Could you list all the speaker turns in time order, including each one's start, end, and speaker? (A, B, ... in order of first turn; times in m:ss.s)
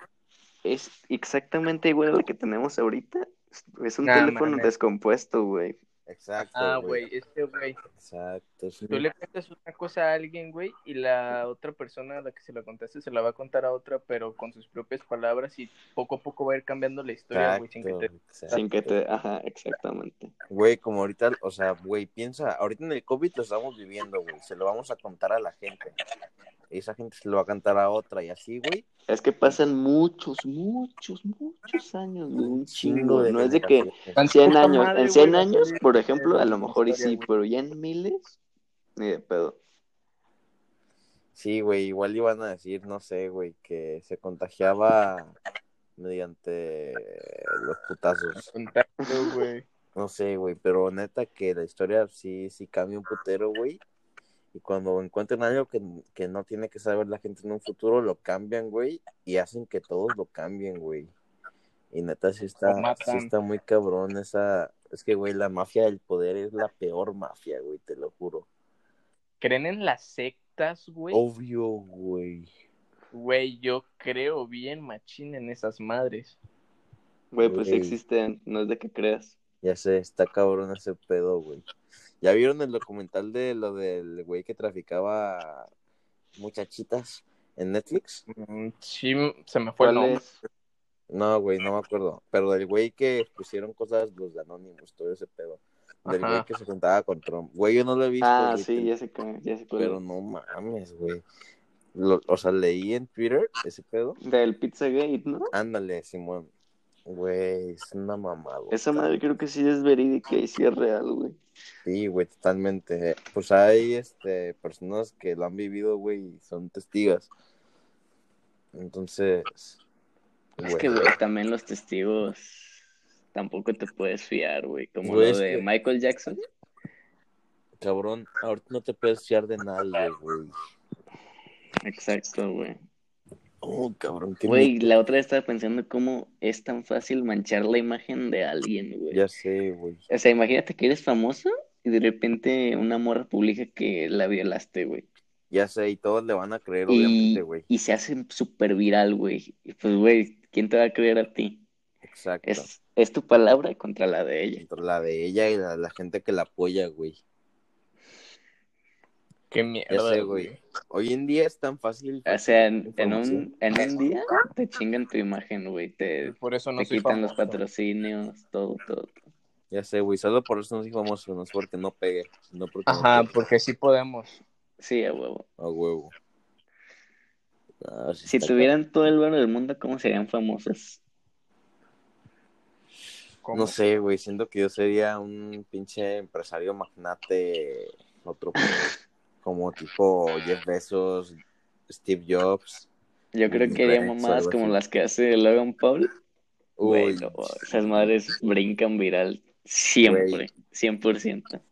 0:00.6-0:05.8 A
0:04.0-0:04.7 B
0:06.1-0:07.1 C
0:06.5-0:07.8 B
0:07.9-0:09.0 C
0:08.9-0:18.8 B
0:17.3-0:18.6 C
0:18.5-0:20.3 A
0:20.5-0:25.9 C
0:26.7-0:28.9 C
0:29.1-0:38.4 A
0:32.4-0:34.2 C
0:34.1-0:37.2 B
0:39.0-0:39.6 A
0:41.4-0:45.4 C
0:46.0-0:48.5 C
0:48.4-0:49.6 B
0:49.1-0:49.4 A
0:49.9-0:53.8 C
0:54.5-1:01.1 C
1:01.9-1:08.5 C
1:02.6-1:03.3 B
1:09.4-1:11.2 B
1:11.1-1:12.5 C
1:13.1-1:16.4 B
1:17.3-1:19.4 A
1:17.4-1:18.0 C
1:19.6-1:21.6 C
1:22.2-1:25.7 C
1:26.4-1:28.2 C
1:28.3-1:30.2 B
1:29.8-1:30.4 A
1:31.1-1:38.9 C
1:36.1-1:36.4 B
1:38.2-1:40.0 A
1:39.8-1:41.2 C
1:41.9-1:44.2 C
1:44.2-1:45.5 A
1:45.5-1:46.5 C
1:47.1-1:49.1 C
1:48.7-1:51.4 A
1:51.8-1:57.3 C
1:58.7-1:59.8 C
2:00.6-2:01.1 C
2:00.6-2:02.8 A
2:03.3-2:06.4 A
2:05.0-2:05.6 C
2:07.8-2:10.5 C
2:11.8-2:12.8 A
2:13.6-2:14.9 C
2:14.4-2:19.2 A
2:19.1-2:20.0 C
2:20.1-2:25.1 A
2:25.5-2:27.6 C
2:26.9-2:31.6 A
2:32.0-2:32.7 C
2:32.4-2:34.6 A
2:34.6-2:37.2 C
2:39.5-2:40.6 B
2:39.9-2:43.5 C
2:42.2-2:49.1 A
2:46.2-2:47.6 B
2:49.7-2:53.4 C
2:52.9-2:54.4 B
2:54.8-2:55.4 A
2:55.6-2:56.1 C
2:57.8-2:58.7 C
2:58.2-3:01.0 A
3:03.4-3:03.7 B
3:03.5-3:11.4 C
3:11.9-3:12.9 C
3:13.3-3:16.1 A
3:13.5-3:14.8 C
3:16.8-3:18.1 C
3:16.8-3:21.6 A
3:20.0-3:20.4 C